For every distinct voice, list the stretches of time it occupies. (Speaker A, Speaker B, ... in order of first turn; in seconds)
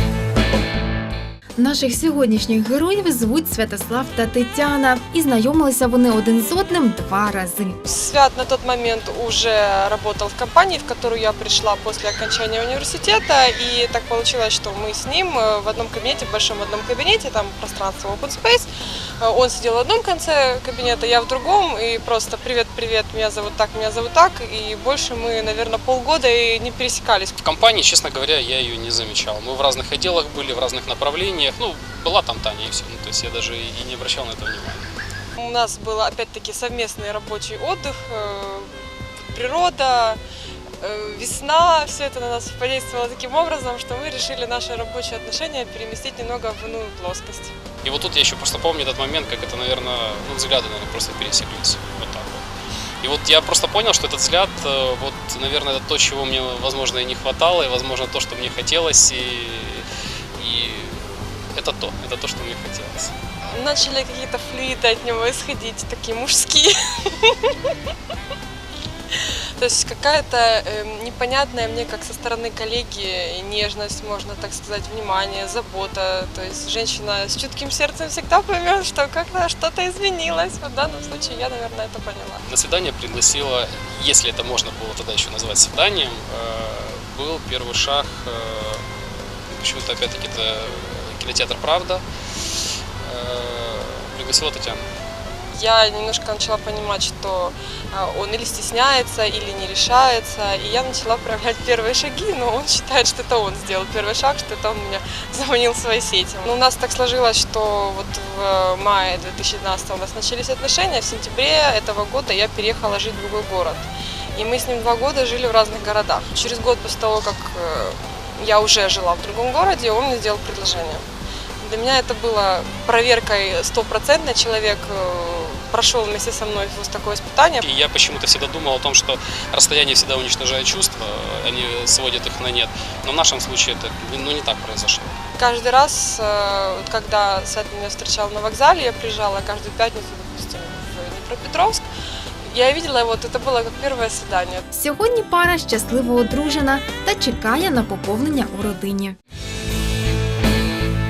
Speaker A: 1.6-7.8, 144.7-149.2
Speaker B: 7.8-18.7, 19.2-27.4, 35.4-38.7, 39.3-40.2, 40.8-47.5, 63.5-67.7, 69.1-82.4, 95.5-121.0, 121.6-127.6, 135.3-141.8, 142.5-144.6
Speaker C: 27.4-34.9, 47.8-52.5, 53.0-63.1, 82.5-94.8, 127.6-135.2